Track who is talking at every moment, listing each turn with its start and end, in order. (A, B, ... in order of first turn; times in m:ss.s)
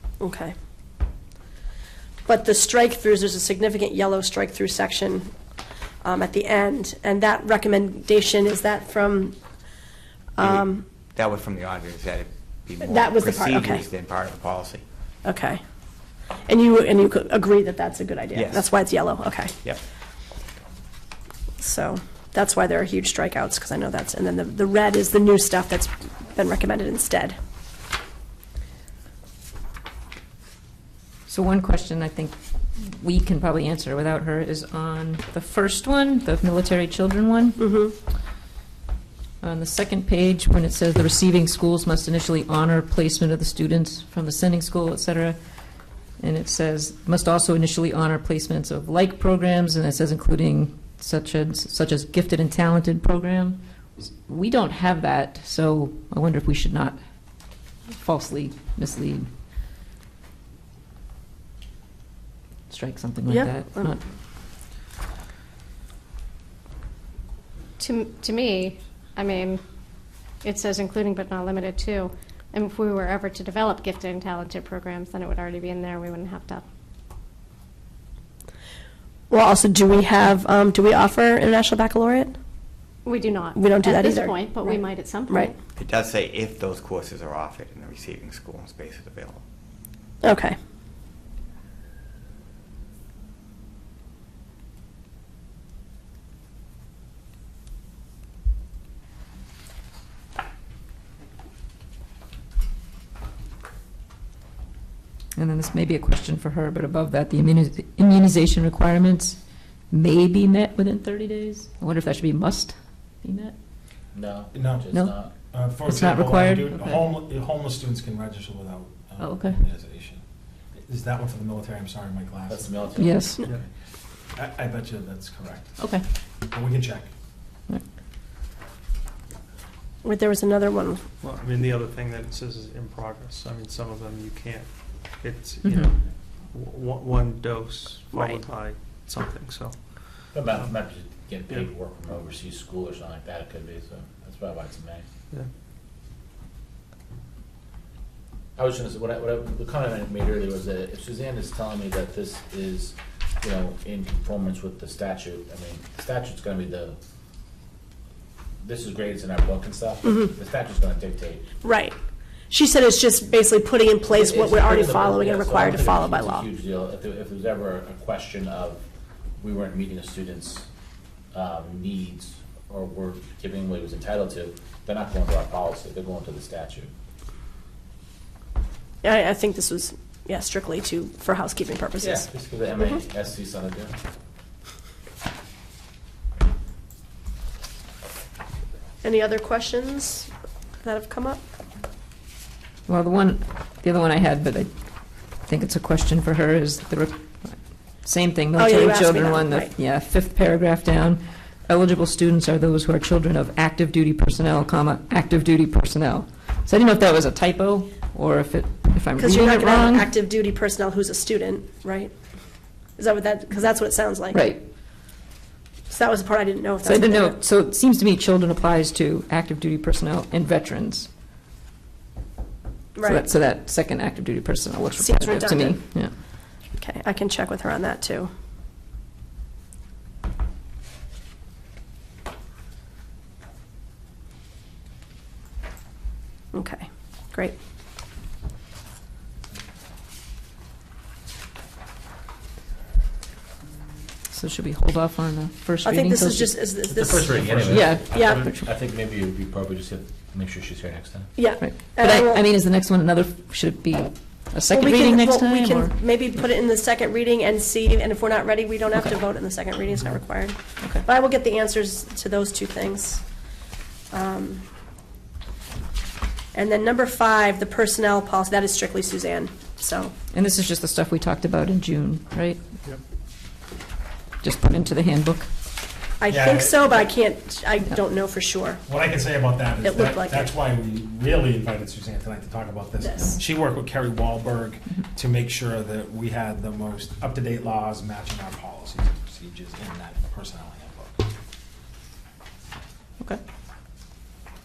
0:00.2-0:00.5 A
0:02.3-0:05.3 A
0:06.0-0:09.4 A
0:10.4-0:10.8 A
0:10.4-0:14.8 B
0:12.8-0:13.8 A
0:15.2-0:15.6 A
0:16.5-0:19.5 A
0:18.3-0:18.7 B
0:21.6-0:27.4 A
0:31.3-0:37.6 C
0:37.6-0:38.0 A
0:39.4-0:45.4 C
0:46.2-0:57.0 C
0:57.9-0:59.3 C
1:02.7-1:04.0 C
1:03.3-1:04.0 A
1:07.8-1:09.6 D
1:10.4-1:16.6 D
1:19.3-1:22.4 A
1:23.0-1:25.6 D
1:23.6-1:25.5 A
1:25.8-1:29.4 B
1:30.2-1:30.6 A
1:45.4-1:49.4 C
1:49.9-1:53.5 C
1:54.1-1:55.4 E
1:54.5-1:54.9 F
1:54.9-1:55.2 C
1:55.4-2:00.2 F
1:55.7-1:57.0 C
1:59.2-1:59.6 C
2:00.8-2:03.6 F
2:02.5-2:03.6 E
2:03.0-2:03.4 C
2:04.4-2:05.8 F
2:05.8-2:06.0 C
2:06.4-2:07.1 F
2:10.0-2:11.0 A
2:11.2-2:15.8 G
2:15.6-2:15.9 C
2:16.5-2:20.7 G
2:18.1-2:18.4 A
2:20.3-2:25.0 E
2:28.6-2:37.0 E
2:38.6-2:41.5 E
2:40.0-2:40.3 A
2:41.6-2:42.0 A
2:42.5-2:46.5 A
2:44.1-2:48.8 E
2:49.4-2:50.7 E
2:51.3-2:56.9 E
2:59.0-3:02.3 A
3:02.0-3:03.9 E
3:09.0-3:10.3 A
3:10.8-3:11.4 A
3:12.9-3:14.7 C
3:15.4-3:30.1 C
3:18.6-3:19.7 A
3:29.2-3:32.1 A
3:33.0-3:34.4 A
3:34.3-3:34.6 C
3:35.9-3:37.4 A
3:36.8-3:41.1 C
3:43.0-3:43.2 A
3:43.0-3:46.1 C
3:44.9-3:45.8 A
3:46.8-3:48.3 A
3:56.5-3:57.6 A
4:04.3-4:06.6 C
4:05.8-4:08.4 A
4:06.9-4:11.4 E
4:07.6-4:08.7 C
4:11.4-4:12.4 A
4:11.6-4:15.9 C
4:14.7-4:23.2 A
4:24.1-4:24.6 A
4:26.5-4:30.1 A
4:30.3-4:32.6 C
4:34.4-4:35.5 C
4:36.2-4:38.8 A
4:36.3-4:37.1 F
4:38.9-4:51.3 F
4:39.8-4:40.5 A
4:43.0-4:43.4 A